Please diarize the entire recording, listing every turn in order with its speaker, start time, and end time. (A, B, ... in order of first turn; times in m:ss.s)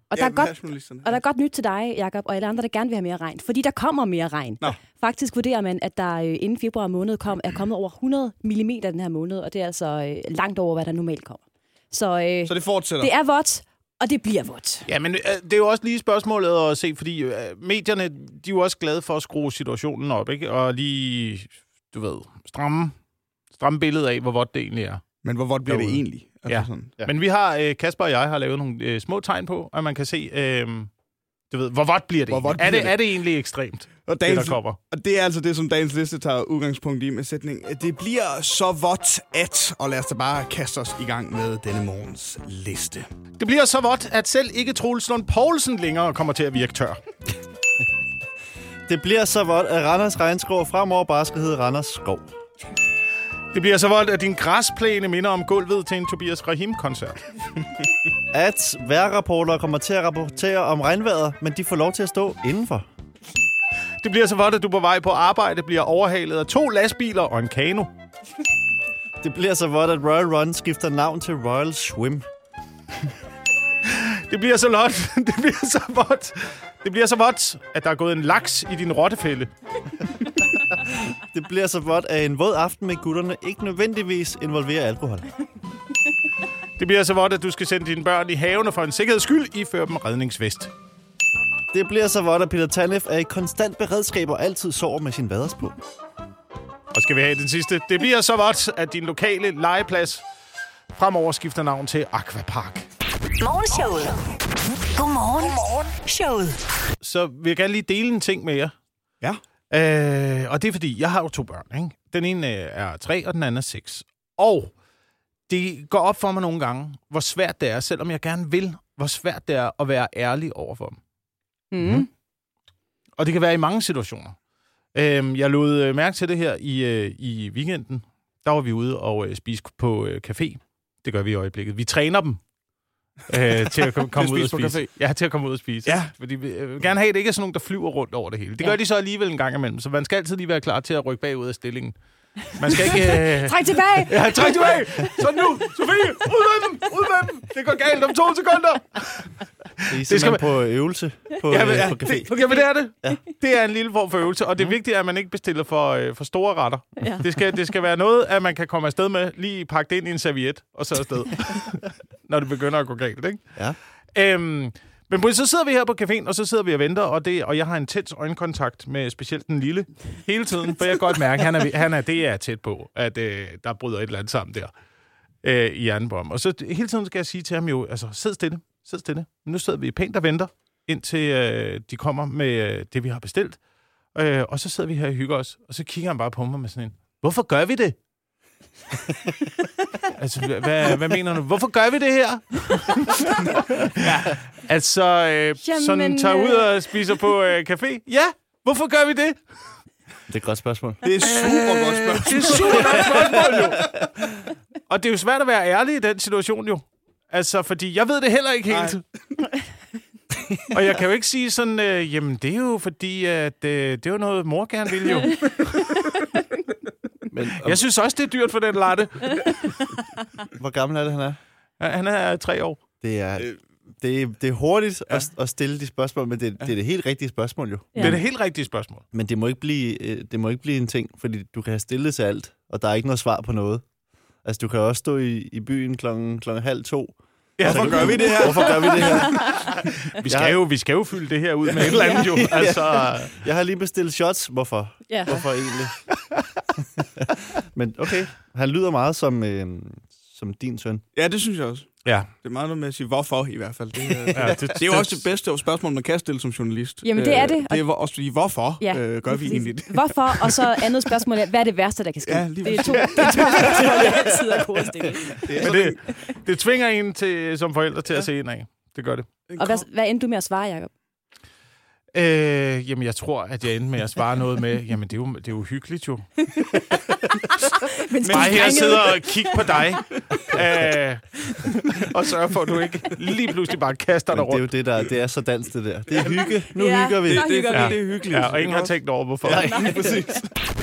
0:00.1-0:14.9 A
0:00.2-0:01.2 B
0:12.5-0:13.1 B
0:14.9-0:23.0 C
0:23.6-0:25.0 C
0:25.2-0:26.9 B
0:25.6-0:30.9 C
0:31.5-0:34.8 C
0:32.3-0:33.0 B
0:34.1-0:43.1 B
0:43.4-0:47.0 C
0:48.9-0:52.3 D
0:53.5-0:57.2 C
0:58.3-1:02.9 D
1:04.0-1:07.9 C
1:09.2-1:12.2 D
1:13.8-1:19.5 C
1:20.8-1:25.3 D
1:26.8-1:30.7 C
1:31.7-1:35.8 D
1:36.9-1:40.2 C
1:40.9-1:42.9 C
1:43.4-1:44.2 E
1:45.0-1:46.6 E
1:47.0-1:48.7 C
1:49.7-1:54.7 C
1:55.5-2:01.0 C
2:01.7-2:02.1 A
2:03.2-2:04.4 C
2:05.0-2:12.4 C
2:13.3-2:29.3 C
2:14.1-2:14.9 B
2:15.8-2:16.1 B
2:23.4-2:24.5 A
2:29.9-2:32.3 D
2:30.0-2:30.4 C
2:31.5-2:43.4 C
2:31.6-2:32.0 B
2:44.1-2:54.7 C
2:55.4-3:03.6 C
3:04.2-3:08.0 C
3:10.0-3:19.4 C
3:14.0-3:14.4 B
3:15.6-3:16.7 A
3:20.3-3:21.0 D
3:21.0-3:23.8 B
3:21.2-3:23.9 C
3:22.8-3:23.8 D
3:24.9-3:29.0 C
3:28.7-3:29.0 B
3:30.6-3:36.0 C
3:37.3-3:37.8 D
3:37.6-3:39.8 C
3:40.5-3:41.4 D
3:41.8-3:42.8 C
3:43.0-3:48.2 D
3:48.0-3:48.2 A
3:48.0-3:49.0 C
3:49.1-3:53.8 D
3:54.4-3:59.6 D
3:57.6-3:59.2 B
3:57.6-4:03.4 C
4:00.2-4:00.6 D
4:01.9-4:02.3 A
4:02.0-4:06.0 D
4:05.1-4:05.4 A
4:07.2-4:11.0 D
4:11.2-4:11.9 B
4:12.0-4:12.3 C
4:12.4-4:20.9 B
4:14.3-4:14.6 D
4:14.3-4:15.2 C
4:17.0-4:17.8 A
4:18.8-4:25.5 A
4:22.2-4:24.2 B
4:25.3-4:26.0 B
4:25.5-4:29.3 C
4:29.5-4:29.8 B
4:29.6-4:30.9 A
4:32.1-4:36.3 C
4:36.4-4:39.9 A
4:38.2-4:44.7 C
4:44.3-4:47.6 D
4:46.7-4:48.0 A
4:47.2-4:50.5 B
4:47.7-4:49.9 C
4:49.6-4:50.2 A